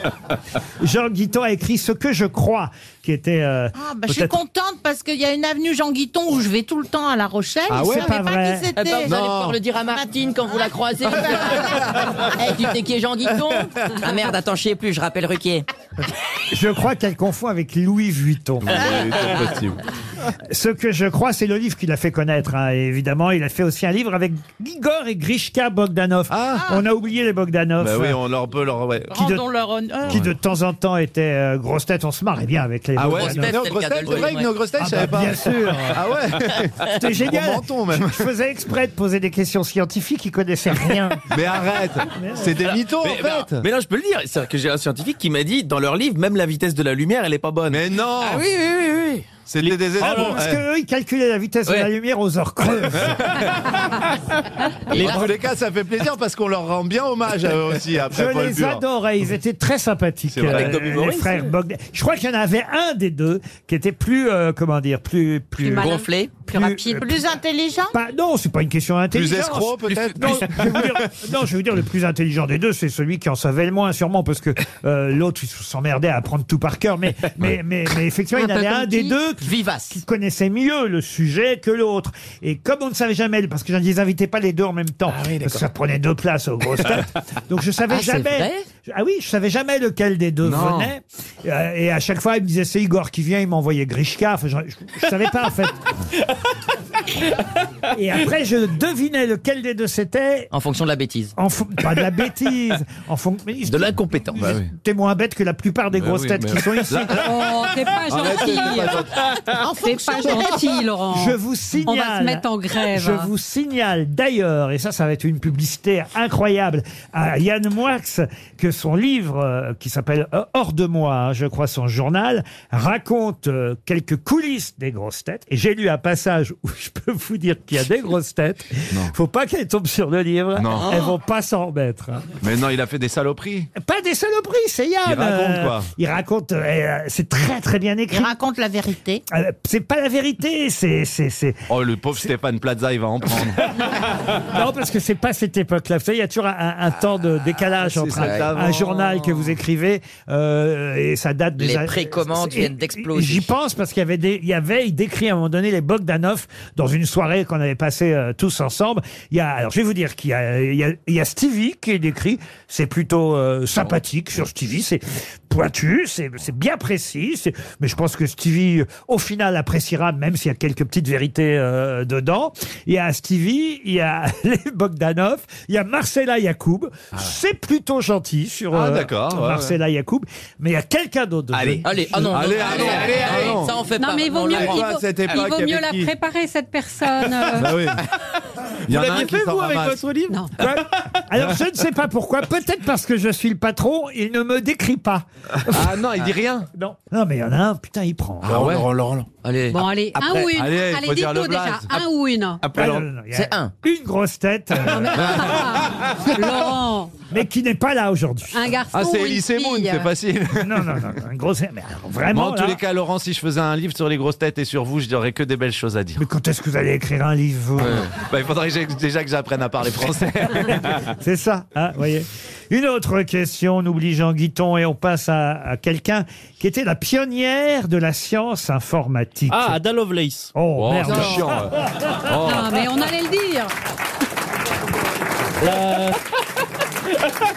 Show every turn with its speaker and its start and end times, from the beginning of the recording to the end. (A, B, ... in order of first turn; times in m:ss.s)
0:00.8-0:04.4 A
0:03.8-0:09.2 B
0:07.7-0:08.7 A
0:08.8-0:11.8 C
0:09.0-0:09.6 D
0:12.4-0:15.7 C
0:16.5-0:18.8 A
0:18.6-0:19.8 D
0:20.5-0:28.2 A
0:26.3-0:26.6 D
0:27.8-0:29.2 D
0:29.1-0:30.3 B
0:29.2-0:29.4 A
0:30.0-0:33.6 A
0:33.0-0:38.3 D
0:33.1-0:34.5 C
0:34.8-0:36.1 A
0:36.8-0:41.2 A
0:41.3-0:43.6 D
0:42.1-0:42.6 A
0:42.7-0:49.2 E
0:47.7-0:48.5 D
0:49.5-0:50.6 D
0:49.9-0:50.3 F
0:50.0-0:53.3 A
0:54.9-0:58.8 D
0:58.1-1:05.9 A
1:00.3-1:00.8 D
1:00.5-1:01.4 E
1:05.6-1:07.1 G
1:05.8-1:06.3 C
1:06.5-1:07.0 A
1:07.0-1:07.9 B
1:07.9-1:35.8 A
1:09.1-1:11.1 D
1:25.1-1:25.6 E
1:27.9-1:28.6 C
1:30.4-1:30.9 E
1:37.9-1:40.5 A
1:40.5-1:41.3 C
1:41.4-1:47.3 A
1:43.7-1:44.6 E
1:46.0-1:47.5 D
1:47.1-1:49.1 G
1:48.0-1:49.2 D
1:49.6-1:50.8 B
1:49.7-1:53.3 G
1:51.1-2:12.3 A
2:10.6-2:11.0 D
2:12.4-2:13.7 D
2:13.8-2:18.3 A
2:15.0-2:15.9 D
2:18.1-2:19.2 B
2:19.3-2:21.6 A
2:21.7-2:23.6 D
2:24.4-3:02.2 A
2:27.8-2:29.1 D
2:28.2-2:28.5 C
2:31.6-2:33.5 C
2:58.7-2:59.8 D
3:01.6-3:03.8 D
3:01.8-3:04.9 C
3:03.9-3:07.9 G
3:04.5-3:06.1 D
3:07.5-3:08.0 D
3:08.9-3:10.3 D
3:08.9-3:10.1 E
3:10.6-3:16.0 A
3:15.7-3:16.7 D
3:16.8-3:18.6 A
3:18.4-3:19.2 D
3:18.5-3:19.0 E
3:19.4-3:19.8 C
3:19.7-3:22.6 G
3:20.5-3:21.9 D
3:22.7-3:25.4 A
3:23.3-3:23.7 C
3:24.9-3:27.1 G
3:25.2-3:25.7 D
3:27.3-3:28.6 A
3:28.5-3:30.1 G
3:28.9-3:31.1 D
3:30.6-3:32.8 A
3:32.3-3:36.2 D
3:36.2-3:38.1 A
3:37.8-3:40.9 D
3:40.9-3:49.8 A
3:49.5-3:50.5 F
3:50.5-3:51.6 A
3:51.0-3:51.5 G
3:51.0-3:51.7 D
3:52.3-3:53.7 G
3:55.6-3:56.2 F